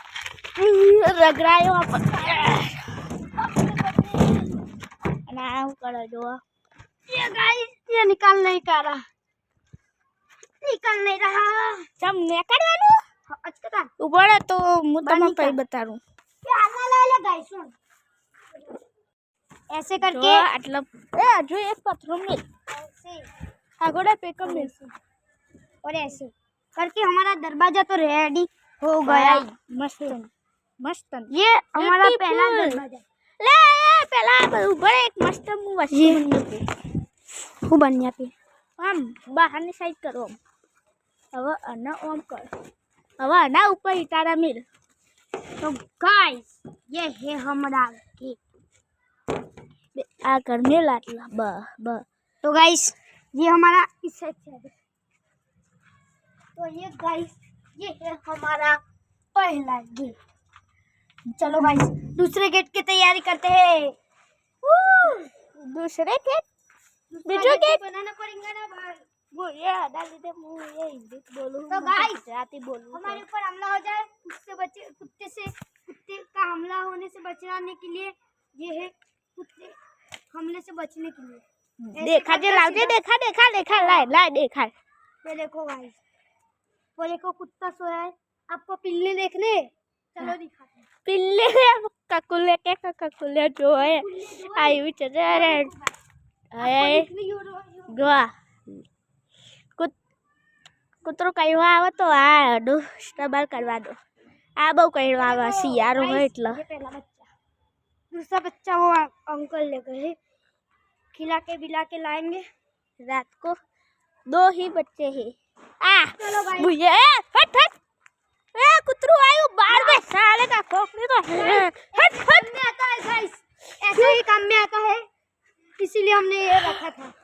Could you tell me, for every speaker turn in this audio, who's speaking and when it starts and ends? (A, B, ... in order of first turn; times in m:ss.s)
0:00.6-0:02.8 A
0:03.4-0:04.6 B
0:05.3-0:06.4 A
0:07.1-0:09.0 B
0:10.6-0:11.9 B
0:12.0-0:13.0 A
0:13.3-0:13.9 B
0:14.0-0:16.0 A
0:15.0-0:15.6 B
0:16.4-0:17.7 B
0:19.7-0:20.4 B
0:20.1-0:22.4 A
0:22.7-0:23.3 B
0:23.8-0:24.7 A
0:24.4-0:24.9 B
0:25.8-0:29.4 B
0:29.0-0:32.8 A
0:31.3-0:33.0 B
0:33.4-0:36.6 A
0:35.9-0:36.2 B
0:37.6-0:38.3 B
0:38.8-0:40.4 A
0:41.3-0:42.5 A
0:43.2-0:44.6 A
0:45.6-0:48.4 B
0:50.0-0:52.0 A
0:52.4-0:54.7 B
0:56.6-0:58.8 B
0:59.3-1:00.2 B
1:01.4-1:03.9 B
1:04.6-1:06.4 A
1:07.1-1:09.0 B
1:07.2-1:07.8 A
1:09.3-1:13.2 A
1:11.7-1:12.2 B
1:12.9-1:19.7 B
1:20.3-1:21.4 B
1:21.8-1:24.7 A
1:21.9-1:23.0 B
1:25.2-1:26.0 B
1:27.0-1:30.9 B
1:31.0-1:35.7 A
1:33.8-1:35.9 B
1:36.5-1:37.1 A
1:36.6-1:38.1 B
1:37.9-1:38.8 A
1:41.0-1:44.0 A
1:44.6-1:46.6 A
1:45.2-1:47.3 B
1:48.1-1:50.2 B
1:51.1-1:52.4 B
1:53.0-1:53.6 A
1:54.3-1:57.7 A
1:56.2-1:56.7 B
1:58.5-2:02.5 A
1:59.7-2:00.0 B
2:01.4-2:05.0 B
2:03.9-2:04.2 A
2:05.8-2:07.1 B